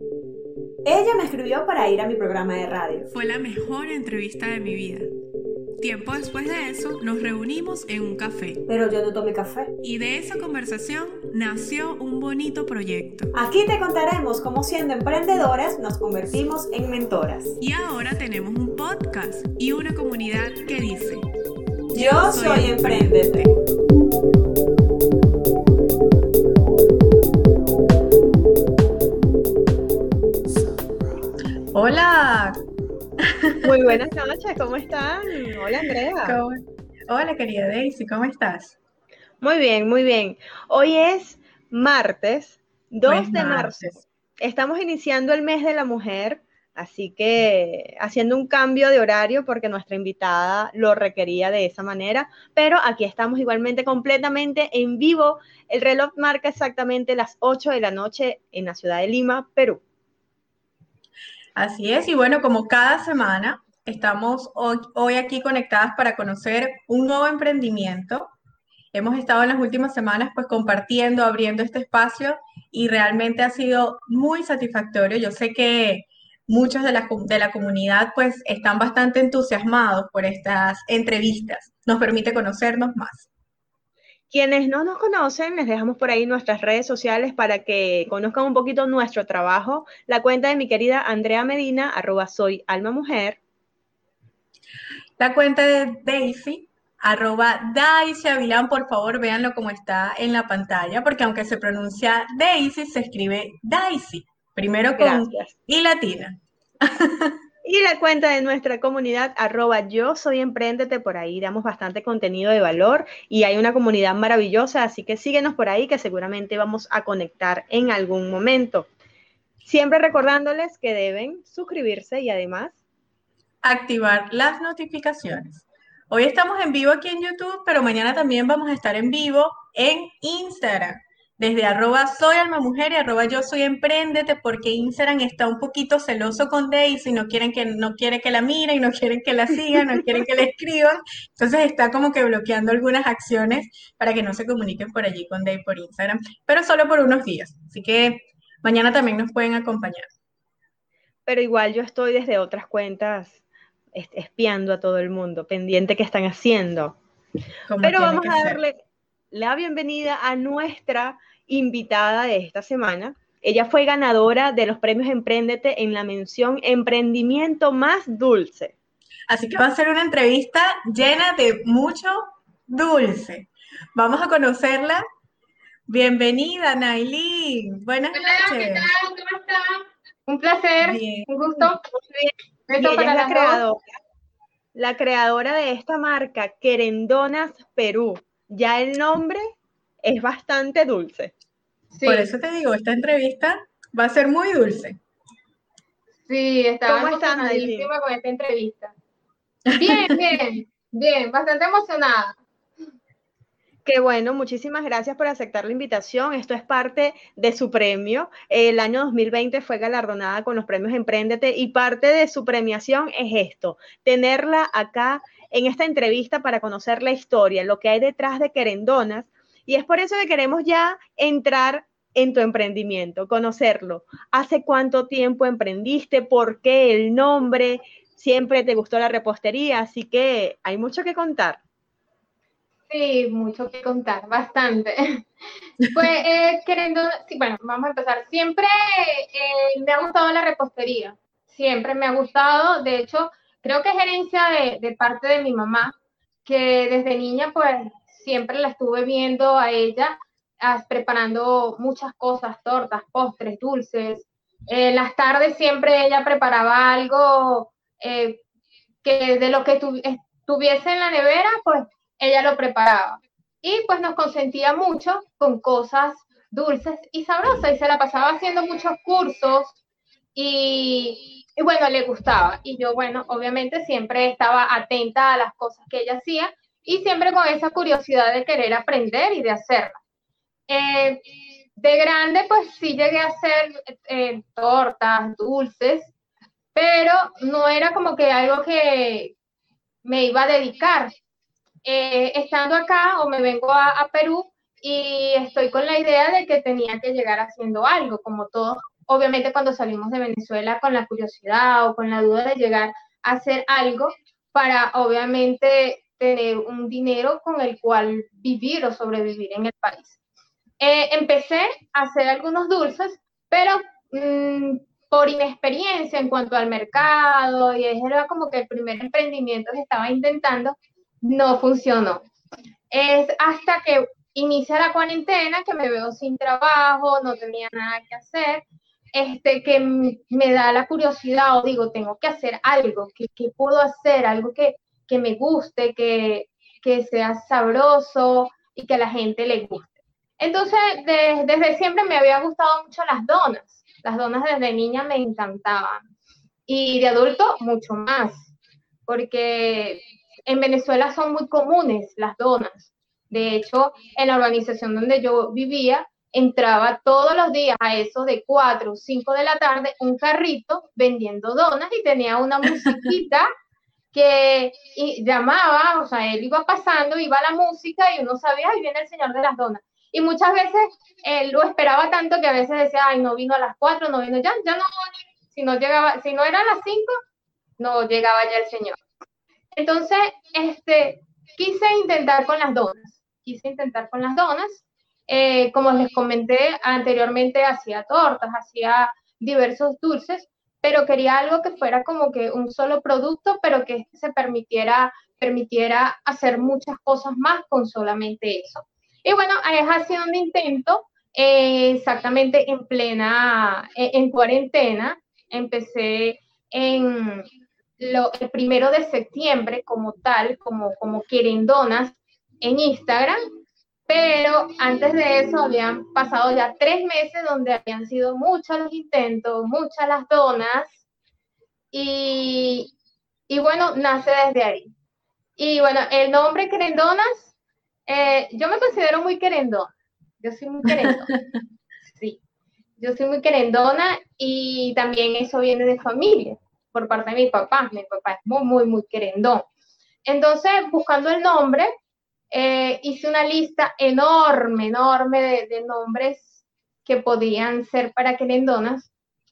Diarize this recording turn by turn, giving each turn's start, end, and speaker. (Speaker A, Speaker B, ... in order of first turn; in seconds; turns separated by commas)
Speaker A: 0.8-3.1, Speaker B: 3.1-5.1, Speaker C: 3.7-4.4, Speaker B: 5.8-8.6, Speaker A: 8.7-9.7, Speaker B: 9.8-13.3, Speaker A: 13.3-17.6, Speaker B: 17.6-21.2, Speaker A: 21.9-23.5, Speaker B: 21.9-23.4, Speaker C: 31.7-32.5, Speaker C: 33.4-34.0, Speaker A: 33.6-36.4, Speaker C: 36.2-38.8, Speaker A: 39.4-43.9, Speaker C: 43.0-44.0, Speaker A: 44.4-59.8, Speaker C: 61.5-68.3, Speaker C: 68.9-83.3, Speaker A: 84.3-93.4, Speaker C: 95.2-107.3, Speaker A: 105.0-105.5, Speaker A: 107.6-118.9, Speaker A: 119.6-122.8, Speaker C: 123.6-150.1, Speaker A: 151.2-153.4, Speaker A: 153.9-157.0, Speaker C: 157.7-158.6, Speaker A: 157.8-158.8, Speaker A: 159.3-168.7, Speaker C: 169.3-175.0, Speaker C: 175.9-178.9, Speaker D: 178.1-181.8, Speaker C: 180.8-181.3, Speaker A: 181.6-183.9, Speaker D: 182.7-183.6, Speaker A: 184.7-189.5, Speaker A: 190.0-191.3, Speaker D: 191.9-192.3, Speaker C: 192.0-195.0, Speaker D: 196.3-198.9, Speaker A: 196.8-197.9, Speaker C: 199.7-200.2, Speaker D: 199.7-202.4, Speaker A: 203.8-231.6, Speaker D: 232.9-235.2, Speaker D: 235.9-258.4, Speaker D: 259.0-269.8, Speaker D: 270.3-280.0, Speaker D: 280.7-281.2, Speaker D: 281.8-286.1, Speaker D: 286.7-289.3, Speaker D: 290.0-291.1, Speaker D: 291.8-310.2, Speaker D: 310.8-322.2, Speaker D: 322.9-346.0, Speaker D: 346.7-348.5, Speaker D: 349.1-363.5, Speaker D: 364.1-377.1, Speaker D: 377.8-379.0, Speaker D: 379.7-407.5, Speaker D: 408.0-413.4, Speaker D: 414.1-421.0, Speaker D: 421.9-422.9, Speaker D: 423.5-424.9, Speaker D: 425.6-427.5, Speaker D: 428.1-431.3, Speaker C: 430.9-431.6, Speaker D: 432.1-432.4, Speaker D: 433.0-439.7, Speaker D: 440.2-441.9, Speaker D: 442.5-449.1